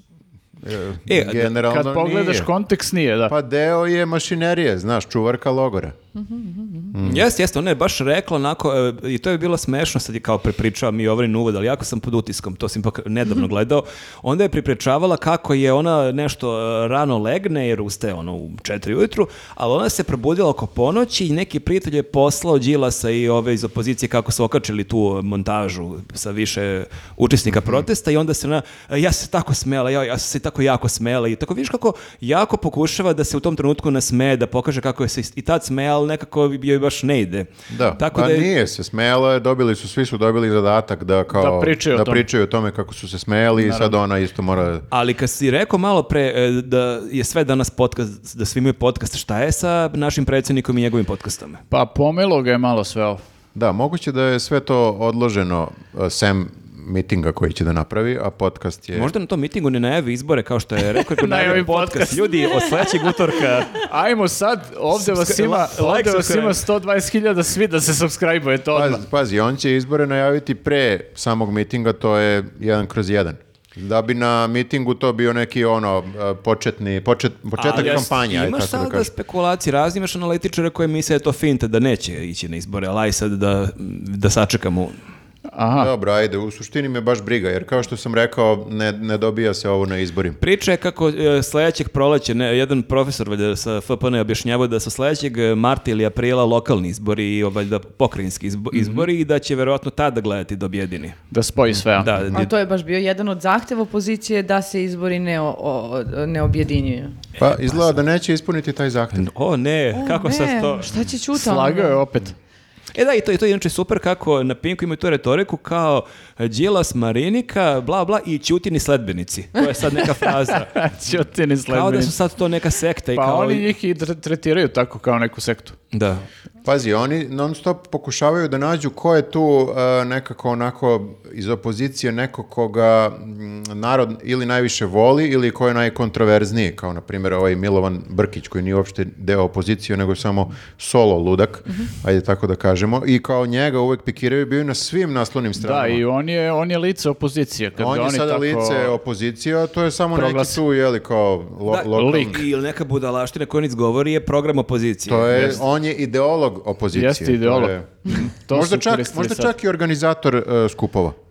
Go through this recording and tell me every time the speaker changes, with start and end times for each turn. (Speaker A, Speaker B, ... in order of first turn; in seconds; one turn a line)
Speaker A: 0.6-2.5
Speaker B: 1.1-1.5
Speaker C: 1.6-3.4
Speaker A: 3.3-6.0
Speaker D: 6.2-6.9
Speaker A: 6.9-7.2
Speaker B: 7.0-38.5
Speaker A: 27.5-27.8
Speaker A: 37.7-44.8
Speaker C: 41.3-42.3
Speaker C: 43.6-44.0
Speaker B: 44.9-51.6
Speaker C: 51.7-53.2
Speaker A: 53.5-59.1
Speaker B: 59.0-63.9
Speaker C: 61.2-62.5
Speaker C: 63.7-69.0
Speaker B: 64.9-66.7
Speaker A: 68.7-79.1
Speaker B: 77.6-85.0
Speaker C: 77.7-78.1
Speaker C: 85.5-85.9
Speaker A: 85.8-90.4
Speaker B: 90.4-101.2
Speaker C: 101.3-102.1
Speaker B: 102.0-102.5
Speaker D: 102.3-107.2
Speaker A: 107.4-109.3
Speaker B: 107.4-108.0
Speaker B: 109.2-110.9
Speaker D: 109.9-112.0
Speaker C: 111.3-112.3
Speaker B: 113.0-120.7
Speaker C: 119.9-122.1
Speaker B: 121.7-123.7
Speaker C: 123.2-125.8
Speaker B: 125.9-126.2
Speaker A: 126.6-146.0
Speaker C: 145.6-148.9
Speaker A: 147.8-152.4
Speaker C: 150.2-150.6
Speaker B: 151.7-155.6
Speaker C: 151.9-152.4
Speaker A: 155.1-161.2
Speaker C: 156.9-159.5